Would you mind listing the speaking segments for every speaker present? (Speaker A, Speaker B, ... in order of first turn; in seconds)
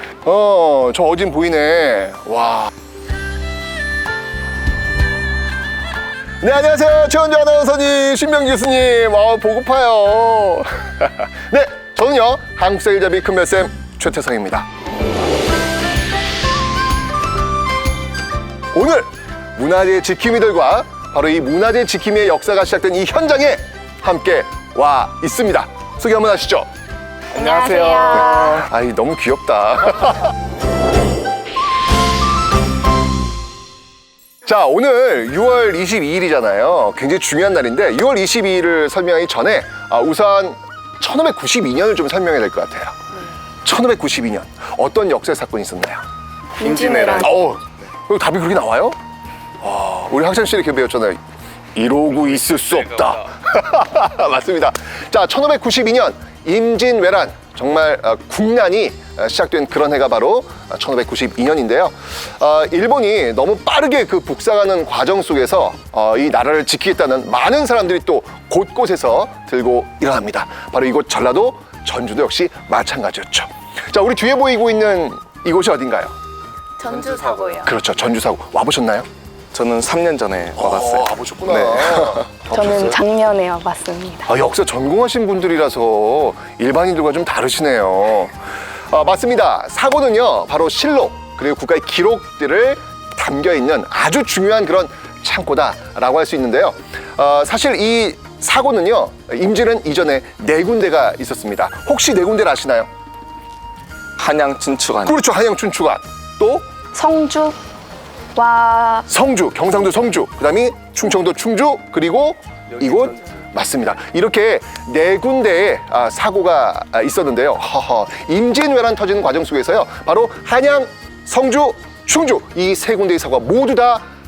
Speaker A: 0.2-2.7, 6.4-14.7, 18.7-26.7, 28.1-30.3, 34.5-43.0, 43.6-46.0, 46.6-49.0, 49.6-51.2, 51.8-76.1, 77.6-79.1, 80.6-83.0, 84.3-88.4, 88.9-102.9, 105.0-106.7, 109.1-124.1
Speaker B: 27.3-28.6, 46.6-47.3, 76.8-77.7, 82.5-84.2, 106.9-107.6, 108.3-109.0
Speaker C: 27.4-28.0, 76.9-77.5, 79.5-82.5, 104.2-105.2